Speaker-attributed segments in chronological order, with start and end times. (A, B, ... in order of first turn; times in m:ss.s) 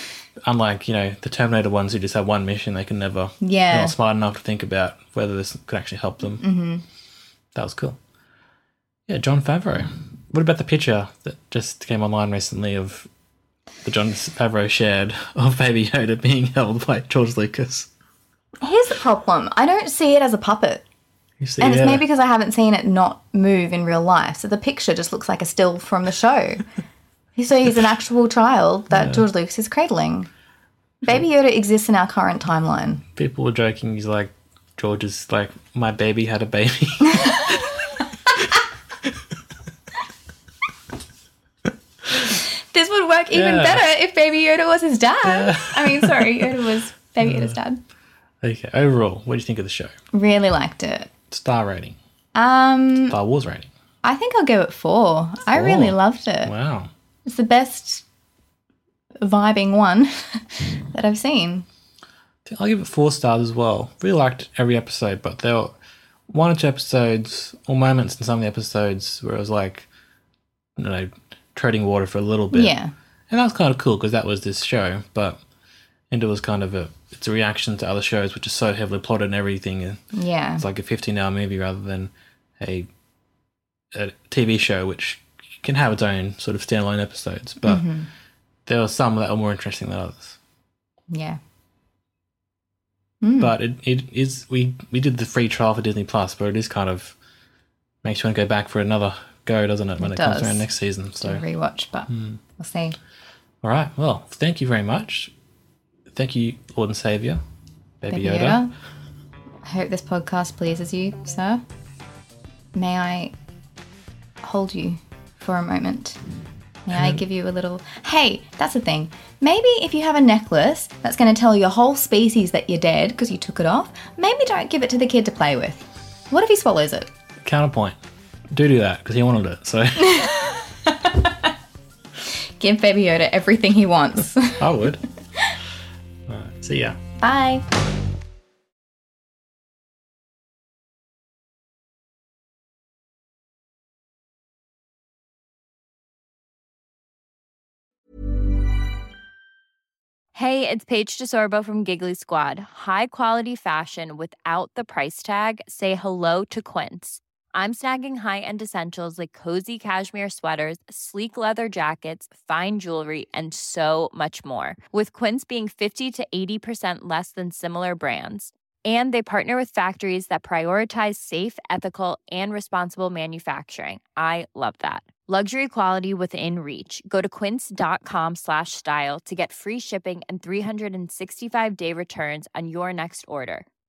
0:00.4-0:06.4 A
0:03.4-0:04.0 B
0:06.4-0:06.8 B
0:07.6-0:08.0 A
0:09.1-0:13.1 A
0:13.8-0:17.9 A
0:18.6-0:20.8 B
0:21.4-0:22.0 A
0:21.6-0:26.6 B
0:27.4-0:30.3 B
0:28.9-0:29.2 A
0:31.0-0:33.0 B
0:33.2-0:37.9 A
0:42.7-0:47.8 B
0:43.3-0:43.9 A
0:45.2-0:46.6 A
0:47.2-0:47.6 A
0:48.4-0:49.9 A
0:50.1-0:51.1 B
0:51.3-0:52.0 A
0:52.4-0:53.2 B
0:53.1-0:53.7 A
0:54.0-0:56.5 B
0:55.5-0:56.9 A
0:57.3-0:58.0 B
0:59.2-1:01.7 B
1:02.5-1:05.8 A
1:06.3-1:09.9 A
1:10.8-1:12.8 A
1:12.5-1:12.9 B
1:13.3-1:15.4 A
1:16.1-1:20.0 A
1:20.1-1:20.6 B
1:20.6-1:22.9 A
1:23.9-1:27.9 A
1:27.6-1:28.1 B
1:28.7-1:30.4 A
1:31.1-1:31.4 B
1:33.2-1:33.5 B
1:33.4-1:37.2 A
1:38.0-1:41.4 A
1:40.0-1:43.0 B
1:42.1-1:42.4 A
1:43.6-1:45.3 A
1:46.1-1:47.4 A
1:48.0-1:48.6 A
1:48.1-1:48.7 B
1:49.6-1:51.6 B
1:52.7-1:53.3 B
1:54.4-1:56.2 B
1:56.9-2:07.1 B
1:56.9-1:57.2 A
2:07.4-2:08.0 A
2:08.5-2:10.3 A
2:10.1-2:11.3 B
2:12.6-2:14.7 B
2:14.6-2:15.0 A
2:16.3-2:17.0 A
2:17.2-2:17.6 B
2:30.4-3:03.5 C